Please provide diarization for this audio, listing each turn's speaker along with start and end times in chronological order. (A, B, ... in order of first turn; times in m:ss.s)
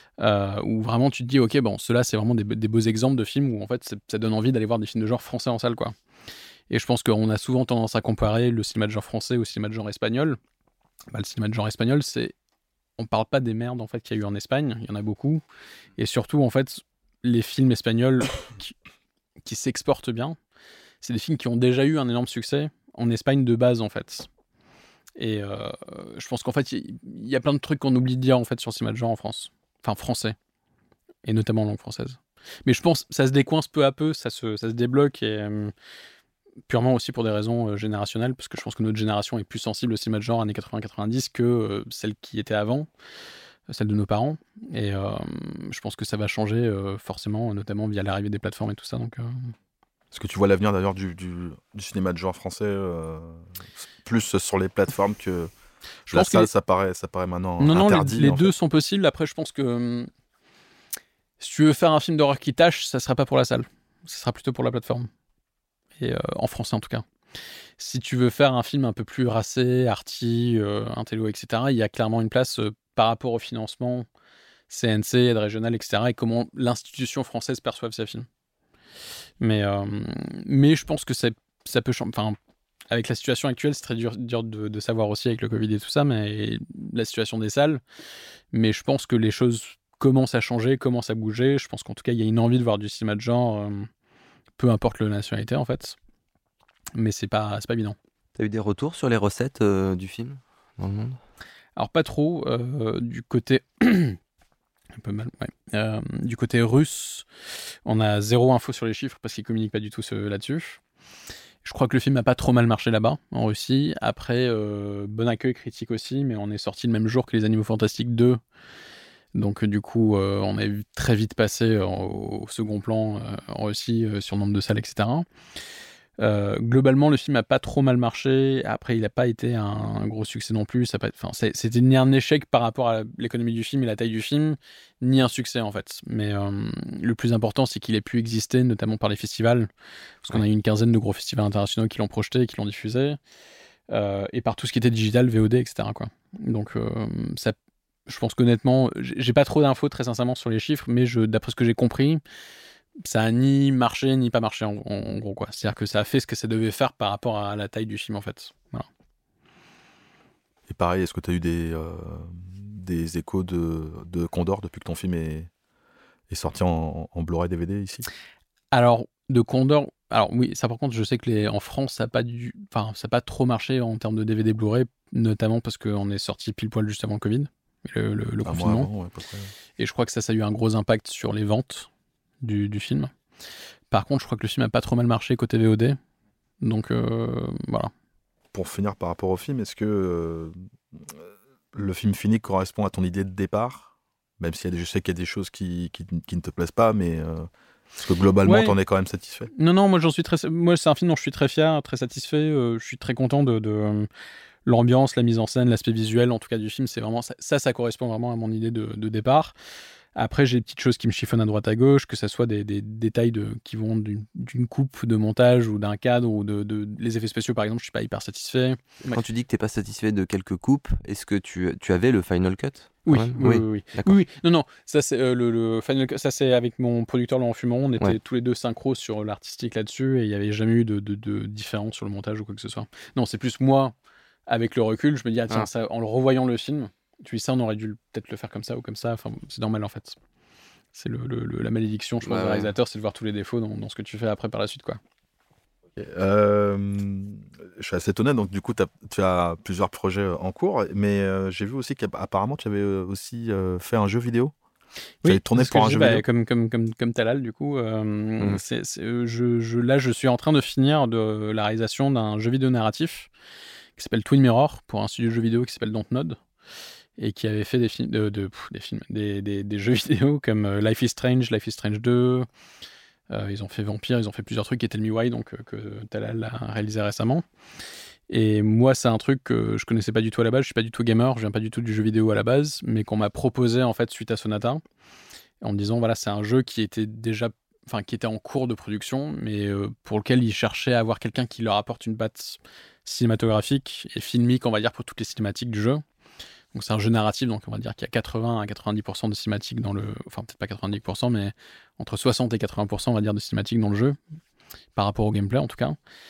0:00.2-0:05.9 A
0:06.7-0:10.4 A
0:11.1-0:12.3 A
0:13.0-0:15.4 A
0:16.0-0:18.7 A
0:19.4-0:20.4 A
0:21.0-0:24.3 A
0:25.2-0:30.4 A
0:31.2-0:35.7 A
0:36.7-0:42.9 A
0:43.7-0:49.5 A
0:50.1-0:55.5 B
0:56.1-0:58.5 B
0:56.1-0:56.5 A
0:57.6-1:00.1 A
1:01.4-1:05.1 A
1:06.0-1:07.0 A
1:07.8-1:14.1 A
1:14.7-1:18.2 A
1:19.4-1:22.4 A
1:22.9-1:27.8 A
1:28.5-1:33.9 A
1:34.6-1:36.0 A
1:37.0-1:38.0 A
1:38.4-1:41.2 C
1:41.8-1:44.2 A
1:44.9-1:47.2 A
1:47.8-1:50.8 A
1:51.6-1:58.4 A
1:59.3-2:05.2 A
2:06.2-2:19.7 A
2:20.2-2:23.2 A
2:23.9-2:27.6 A
2:28.1-2:32.2 A
2:33.0-2:38.9 A
2:40.7-2:45.5 B
2:46.3-2:48.0 B
2:48.7-2:58.9 A
2:58.4-2:59.5 B
2:59.8-3:01.9 A
3:02.4-3:03.1 A
3:03.9-3:06.0 A
3:06.6-3:07.9 A
3:08.5-3:19.5 B
3:18.4-3:18.8 A
3:19.5-3:24.1 A
3:24.6-3:29.5 A
3:30.2-3:39.2 A
3:39.1-3:44.1 C
3:43.0-3:53.9 A
3:54.5-4:00.2 A
4:00.9-4:05.0 A
4:02.2-4:02.7 C
4:06.0-4:14.5 B
4:15.2-4:23.3 A
4:15.2-4:16.2 B
4:24.0-4:26.4 A
4:27.2-4:32.5 A
4:33.3-4:37.4 A
4:38.3-4:44.8 A
4:45.6-4:56.0 A
4:56.7-5:04.2 A
5:05.0-5:06.0 A